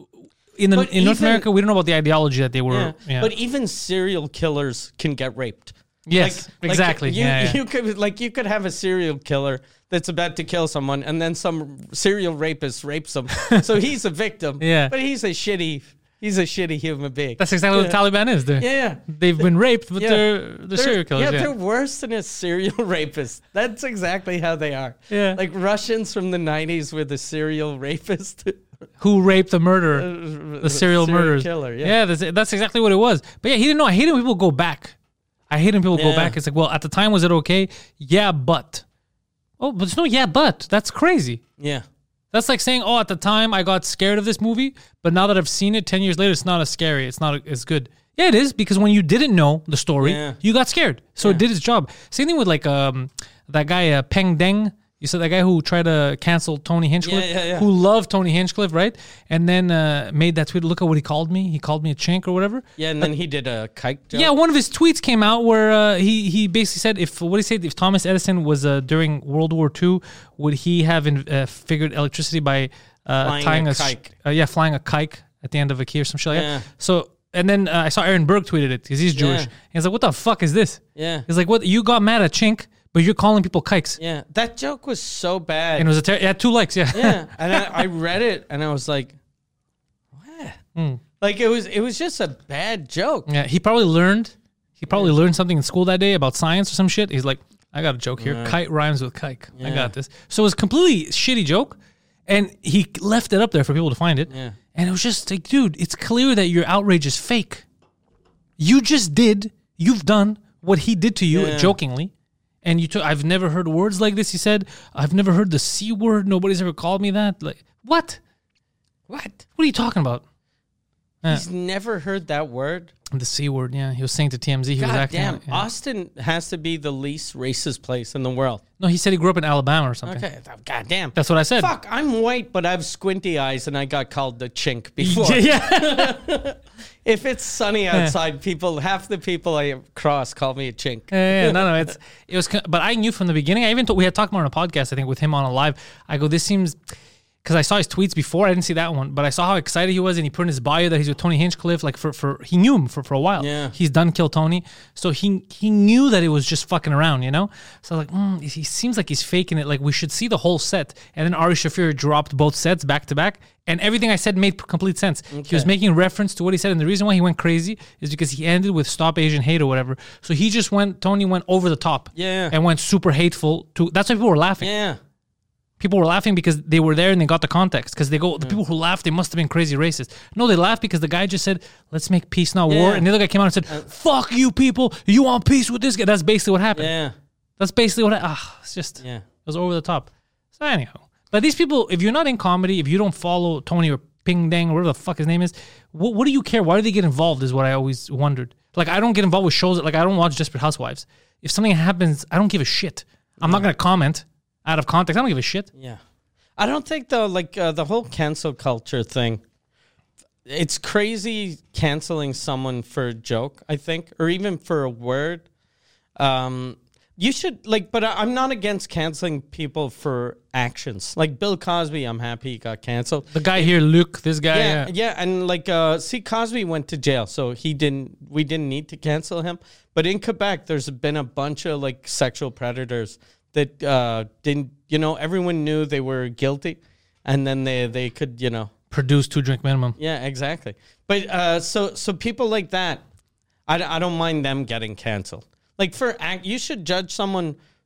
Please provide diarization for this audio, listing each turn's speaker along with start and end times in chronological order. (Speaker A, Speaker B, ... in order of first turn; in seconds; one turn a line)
Speaker A: 0.6-3.3
Speaker B: 0.7-1.5
Speaker B: 2.7-18.0
Speaker A: 6.1-7.6
Speaker A: 13.4-13.6
Speaker A: 14.6-14.9
Speaker A: 17.4-21.5
Speaker B: 18.6-19.5
Speaker B: 20.0-28.6
Speaker A: 25.1-25.4
Speaker A: 29.0-35.0
Speaker B: 29.9-31.9
Speaker A: 35.5-38.8
Speaker B: 35.9-36.4
Speaker A: 39.6-41.4
Speaker B: 41.6-41.9
Speaker A: 42.3-62.6
Speaker B: 50.0-50.4
Speaker B: 57.0-57.7
Speaker B: 62.8-64.3
Speaker A: 64.1-84.0
Speaker B: 73.2-74.1
Speaker B: 76.3-76.7
Speaker B: 79.2-79.5
Speaker B: 81.0-81.3
Speaker B: 84.0-85.9
Speaker A: 85.8-87.9
Speaker B: 86.9-89.2
Speaker B: 90.2-90.6
Speaker A: 90.8-91.0
Speaker B: 91.2-93.3
Speaker A: 93.3-101.8
Speaker B: 98.2-98.6
Speaker B: 99.6-99.9
Speaker A: 102.3-107.7
Speaker B: 104.3-104.6
Speaker A: 108.6-112.1
Speaker B: 111.3-111.8
Speaker A: 112.6-118.2
Speaker B: 119.1-119.4
Speaker A: 119.6-120.2
Speaker B: 121.3-122.9
Speaker A: 123.1-125.7
Speaker B: 124.8-128.6
Speaker A: 128.8-130.2
Speaker B: 130.1-141.9
Speaker A: 131.2-131.7
Speaker A: 135.0-136.2
Speaker A: 141.1-146.8
Speaker A: 147.4-174.7
Speaker B: 153.4-153.7
Speaker B: 165.3-165.7
Speaker B: 172.2-172.6
Speaker B: 174.6-175.0
Speaker A: 175.8-186.9
Speaker B: 182.7-183.1
Speaker B: 186.7-187.1
Speaker A: 187.6-205.7
Speaker B: 203.4-203.7
Speaker B: 205.8-206.0
Speaker B: 206.6-209.4
Speaker B: 210.5-215.5
Speaker B: 216.2-223.7
Speaker A: 223.3-224.9
Speaker B: 224.5-238.7
Speaker A: 238.9-240.0
Speaker B: 240.0-243.0
Speaker B: 243.7-247.6